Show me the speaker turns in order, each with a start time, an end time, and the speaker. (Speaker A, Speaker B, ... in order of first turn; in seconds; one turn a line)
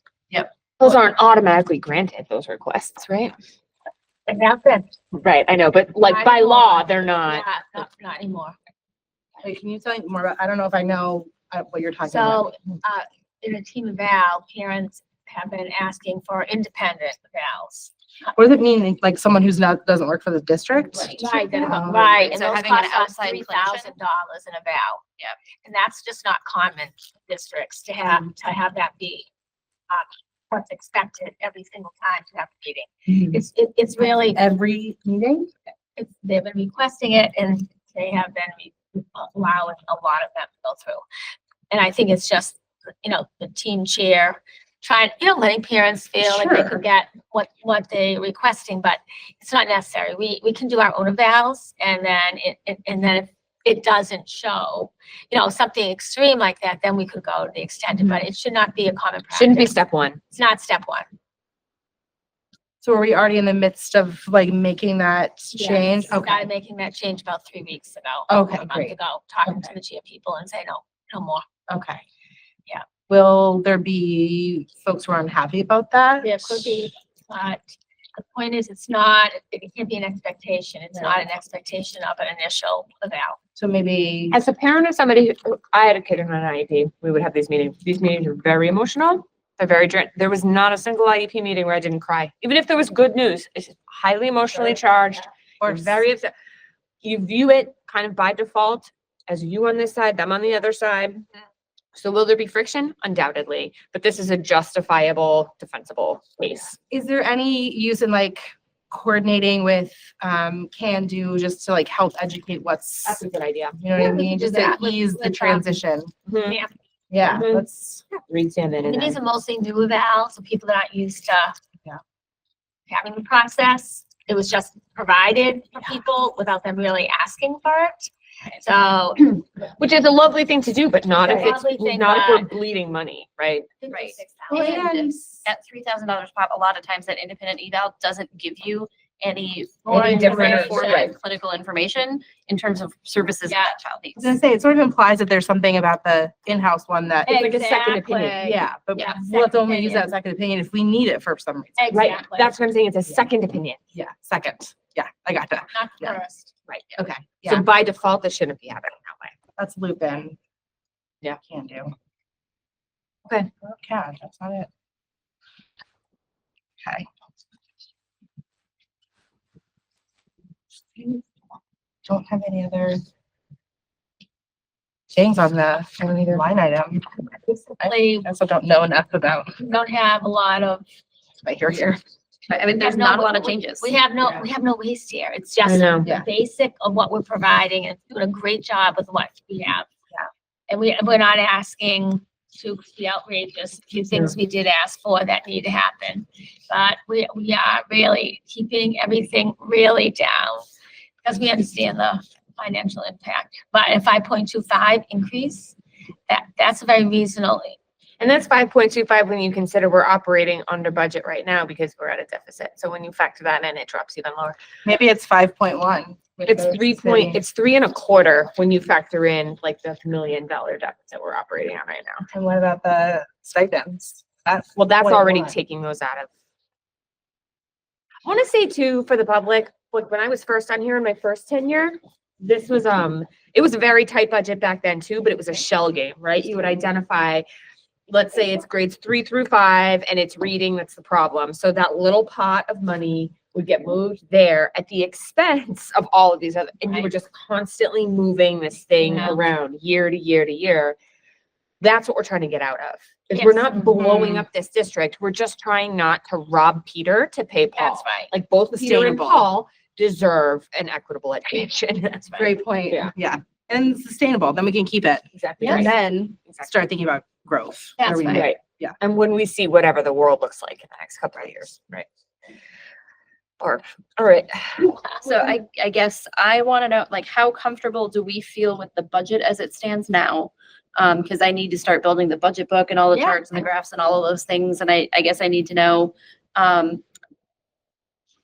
Speaker A: 0.8-3.4
Speaker B: 4.3-4.9
Speaker A: 5.1-7.5
Speaker B: 6.0-8.6
Speaker C: 9.4-12.5
Speaker B: 12.1-18.3
Speaker C: 18.4-22.2
Speaker B: 21.1-25.0
Speaker D: 22.2-23.9
Speaker B: 25.6-29.3
Speaker B: 29.9-34.4
Speaker C: 33.1-33.4
Speaker C: 34.0-35.5
Speaker B: 36.0-41.0
Speaker B: 41.7-59.8
Speaker A: 59.4-60.2
Speaker B: 60.3-61.1
Speaker C: 62.8-66.5
Speaker B: 65.5-71.5
Speaker C: 68.3-69.0
Speaker C: 71.7-72.0
Speaker C: 73.1-76.8
Speaker B: 76.2-83.4
Speaker C: 83.6-84.4
Speaker A: 84.3-96.3
Speaker C: 95.6-96.0
Speaker A: 97.0-101.2
Speaker A: 102.0-106.8
Speaker C: 106.9-113.2
Speaker A: 113.0-113.8
Speaker C: 113.8-116.1
Speaker B: 114.0-115.7
Speaker A: 116.3-116.6
Speaker B: 116.5-116.8
Speaker C: 117.1-118.0
Speaker A: 117.2-119.2
Speaker B: 118.8-121.5
Speaker B: 122.9-129.4
Speaker A: 129.8-133.7
Speaker B: 131.2-132.5
Speaker B: 133.8-134.8
Speaker D: 133.9-144.4
Speaker C: 134.5-135.5
Speaker B: 139.8-141.1
Speaker A: 139.9-141.1
Speaker C: 139.9-140.5
Speaker B: 143.5-143.8
Speaker C: 144.2-147.3
Speaker B: 147.3-150.1
Speaker A: 147.3-148.6
Speaker C: 148.4-151.9
Speaker B: 151.8-152.6
Speaker A: 151.9-153.8
Speaker C: 153.9-156.2
Speaker B: 155.7-156.5
Speaker A: 156.7-159.3
Speaker C: 157.0-157.6
Speaker C: 159.6-160.4
Speaker C: 161.3-161.9
Speaker C: 163.6-164.7
Speaker C: 172.1-173.0
Speaker C: 175.1-179.6
Speaker A: 176.0-176.5
Speaker B: 177.8-178.3
Speaker B: 179.6-180.8
Speaker C: 181.4-182.0
Speaker D: 182.5-183.9
Speaker B: 182.8-189.9
Speaker A: 185.7-186.1
Speaker B: 190.7-200.7
Speaker B: 201.2-205.8
Speaker B: 206.3-207.8
Speaker A: 208.2-214.6
Speaker C: 214.8-217.4
Speaker A: 216.4-222.2
Speaker C: 222.3-225.6
Speaker A: 224.8-226.3
Speaker A: 228.2-237.5
Speaker A: 238.1-251.0
Speaker B: 249.0-249.4
Speaker A: 251.8-263.1
Speaker B: 253.3-254.4
Speaker B: 257.8-258.3
Speaker C: 258.8-259.5
Speaker C: 262.4-269.0
Speaker A: 265.4-265.9
Speaker B: 265.6-265.9
Speaker B: 268.0-268.5
Speaker A: 268.3-272.1
Speaker A: 273.6-275.0
Speaker D: 275.2-287.0